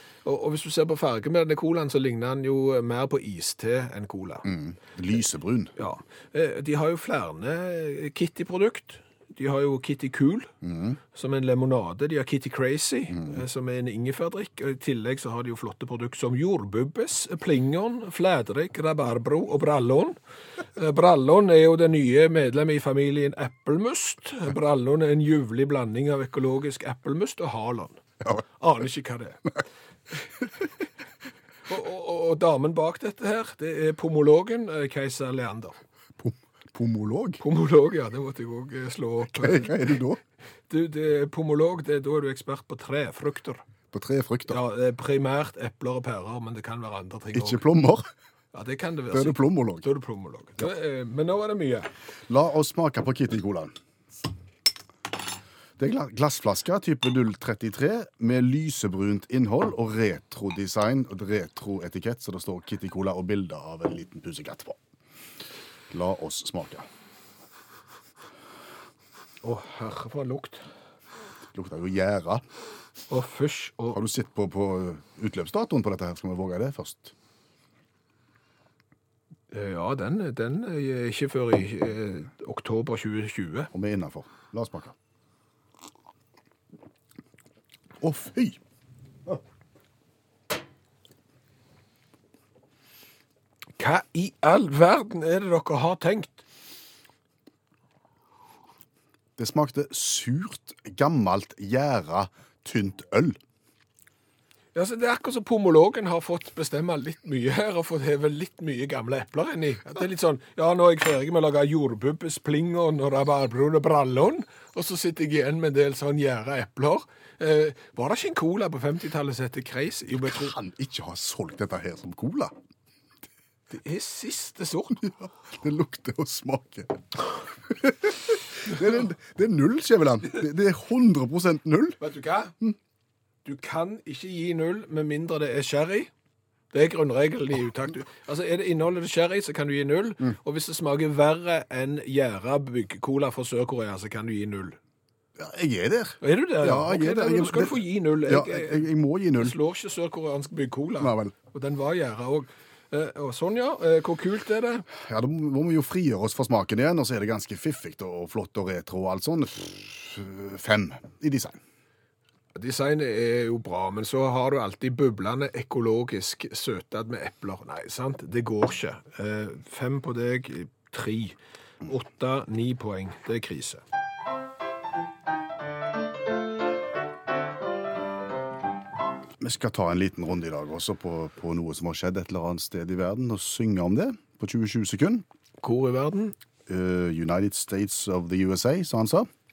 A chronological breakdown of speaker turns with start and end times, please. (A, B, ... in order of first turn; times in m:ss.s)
0:00.2-0:04.5 A
0:04.4-0:05.7 B
0:05.8-0:10.5 A
0:10.6-0:11.0 B
0:11.1-0:20.2 A
0:13.1-0:13.4 B
0:20.8-0:28.0 A
0:28.6-0:29.5 A
0:31.7-0:35.8 A
0:36.2-0:37.4 B
0:37.4-0:39.9 A
0:39.3-0:40.2 B
0:40.7-0:43.6 A
0:43.9-0:44.6 B
0:44.5-0:47.6 A
0:47.3-0:48.1 B
0:48.5-0:51.9 A
0:49.1-0:49.8 B
0:52.3-0:53.7 B
0:55.8-1:04.8 B
1:05.9-1:06.9 B
1:09.4-1:10.7 A
1:11.5-1:12.4 B
1:13.1-1:14.0 A
1:13.9-1:17.1 B
1:19.5-1:23.7 A
1:23.7-1:25.0 B
1:28.0-1:28.6 B
1:33.8-1:36.4 A
1:39.4-1:43.4 B
1:44.8-2:00.5 A
2:00.2-2:02.5 B
2:03.7-2:05.1 A
2:05.0-2:07.0 B
2:07.7-2:12.0 B
2:12.0-2:12.5 A
2:13.4-2:16.1 A
2:16.7-2:24.8 A
2:25.4-2:29.6 B
2:26.2-2:28.8 A
2:29.4-2:34.9 A
2:31.0-2:31.3 B
2:34.9-2:41.6 B
2:42.6-2:53.8 A
2:59.4-3:05.2 B
3:05.6-3:06.4 A
3:06.7-3:09.3 B